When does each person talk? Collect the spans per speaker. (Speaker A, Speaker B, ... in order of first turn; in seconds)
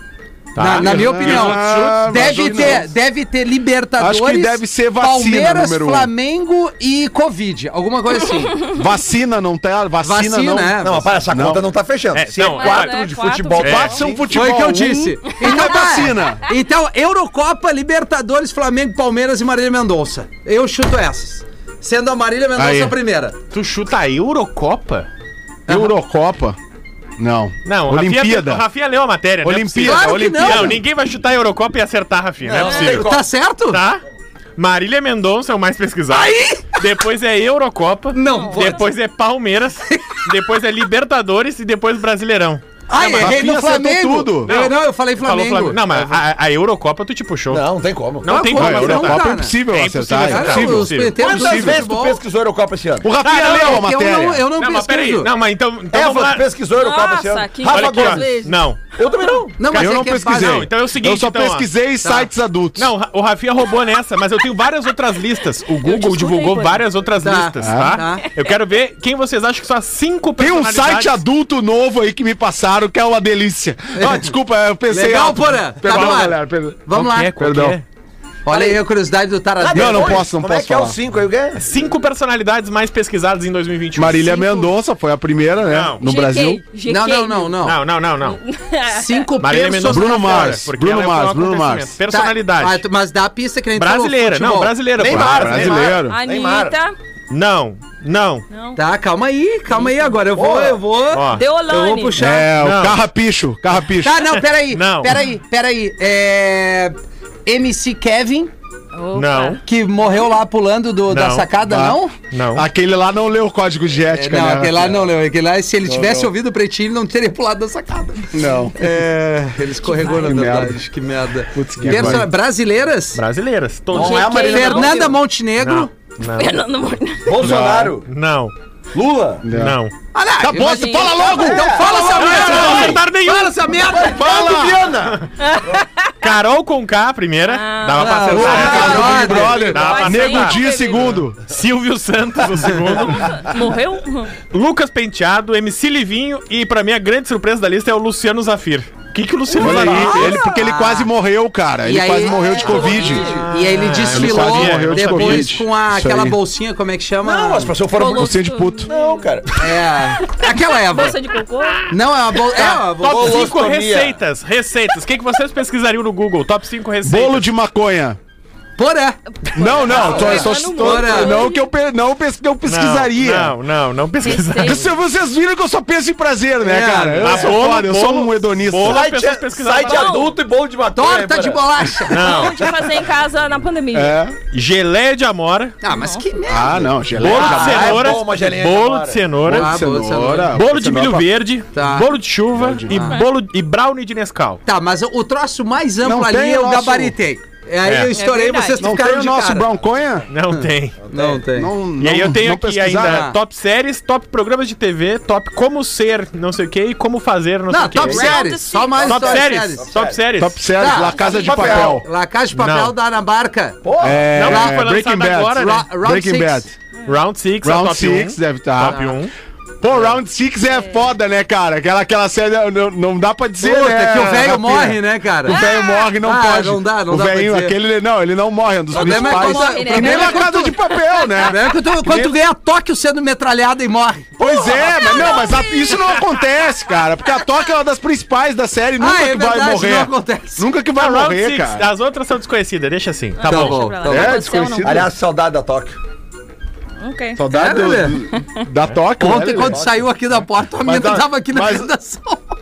Speaker A: 0.6-2.8, 12.1-14.0, 23.5-25.1, 27.7-33.2, 33.7-34.0, 34.6-43.3, 44.5-47.6, 48.2-51.2, 53.3-53.8, 54.6-56.5, 57.7-58.8, 59.8-71.2, 75.8-76.3, 76.9-77.8, 81.6-84.7, 85.7-86.0, 87.6-88.4, 89.4-92.8, 93.8-95.9, 97.3-98.5, 101.1-101.4, 102.6-103.0, 104.7-105.2, 109.1-109.6, 111.1-111.5, 112.3-112.7, 121.8-122.2, 123.1-124.6, 125.6-126.6, 127.4-128.5, 129.5-129.9, 131.9-133.6, 135.0-135.3, 136.2-143.6, 144.5-150.4, 153.3-155.6, 162.5-167.5, 172.7-174.9, 177.2-180.3, 182.1-182.7, 184.5-185.8, 187.1-189.7, 190.5-194.6, 197.8-198.1, 200.3-201.0, 202.0-208.4, 209.0-210.7, 212.6-212.9, 214.3-215.9, 217.1-219.3, 241.0-243.9
Speaker B: 0.6-8.6, 10.0-11.2, 14.3-23.4, 25.7-25.9, 29.9-30.8, 32.7-33.8, 36.1-36.9, 38.1-38.9, 39.9-40.2, 42.9-46.2, 48.3-49.6, 50.2-52.2, 53.2-55.3, 59.6-60.7, 67.2-68.2, 74.0-74.3, 74.9-77.4, 78.5-80.2, 86.9-87.8, 88.9-90.5, 92.1-94.8, 98.8-102.5, 104.0-107.0, 107.5-108.5, 109.7-112.1, 114.1-123.2, 124.3-125.9, 130.1-134.4, 138.0-139.7, 149.5-151.1, 151.8-157.8, 159.6-161.2, 161.9-163.5, 168.8-171.5, 176.6-177.4, 180.9-182.5, 185.8-187.4, 189.5-190.6, 191.7-192.2, 192.9-193.2, 194.7-199.7, 200.5-201.7, 203.0-203.4, 207.7-209.9, 210.8-213.8, 214.4-214.8, 215.5-216.7, 218.8-219.2, 223.6-225.6, 226.2-227.8, 228.9-230.7, 231.3-234.4, 239.0-240.7, 243.4-244.4, 247.5-248.2, 249.2-252.4
Speaker C: 0.7-2.9, 4.0-6.1, 8.7-11.7, 13.6-16.4, 22.6-23.0, 25.7-26.6, 27.2-28.6, 29.4-30.8, 43.0-44.5, 48.5-51.8, 53.0-54.5, 59.7-62.9, 67.6-68.0, 70.4-77.8, 79.7-81.0, 84.0-86.6, 89.9-92.0, 95.0-96.2, 102.2-104.3, 111.6-112.0, 112.5-115.1, 115.8-116.3, 118.3-118.7, 120.1-120.8, 121.5-122.3, 127.4-128.0, 129.4-129.8, 130.4-133.0, 134.0-134.9, 138.3-141.4, 149.6-153.3, 154.1-156.4, 158.1-158.9, 167.0-168.2, 169.6-173.6, 174.6-179.1, 183.9-184.4, 186.5-188.2, 189.4-191.3, 192.6-193.0, 196.0-197.2, 198.8-200.3, 201.5-203.3, 210.4-212.1, 214.0-216.7, 217.6-219.0, 219.8-232.4, 234.4-241.9, 244.0-245.1, 247.4-249.9, 250.8-251.9
Speaker D: 10.8-14.6, 32.4-33.3, 47.5-48.3, 51.2-53.1, 55.9-58.4, 59.0-59.6, 78.5-78.8, 79.6-81.8, 95.0-96.8, 100.3-100.8, 123.9-125.2, 127.3-128.1, 128.9-129.5, 131.1-133.0, 133.8-135.2, 138.4-140.1, 152.3-153.5, 157.2-159.8, 162.6-164.2, 170.0-170.5, 177.3-177.5, 178.8-182.0, 187.2-189.2, 201.0-201.4, 208.9-210.2, 210.9-212.0, 213.8-214.3, 244.8-246.0
Speaker E: 12.4-14.0, 15.4-15.8, 38.2-38.9, 56.7-59.4, 65.8-66.9, 68.2-68.5, 86.0-87.7, 88.2-89.3, 95.8-97.0, 98.5-98.8, 99.8-100.1, 101.3-102.2, 108.9-109.6, 119.9-120.5, 123.9-125.2, 126.4-127.4, 130.5-131.6, 135.4-136.1, 137.5-141.2, 143.1-144.4, 152.7-153.4, 157.9-159.4, 160.4-161.9, 169.4-171.7, 174.2-174.8, 179.7-180.3, 182.1-184.2, 185.9-186.4, 198.1-198.9, 207.9-209.3, 220.7-221.0, 225.5-226.2, 228.9-231.4, 234.5-236.2, 243.4-245.1, 247.0-247.5, 248.3-248.6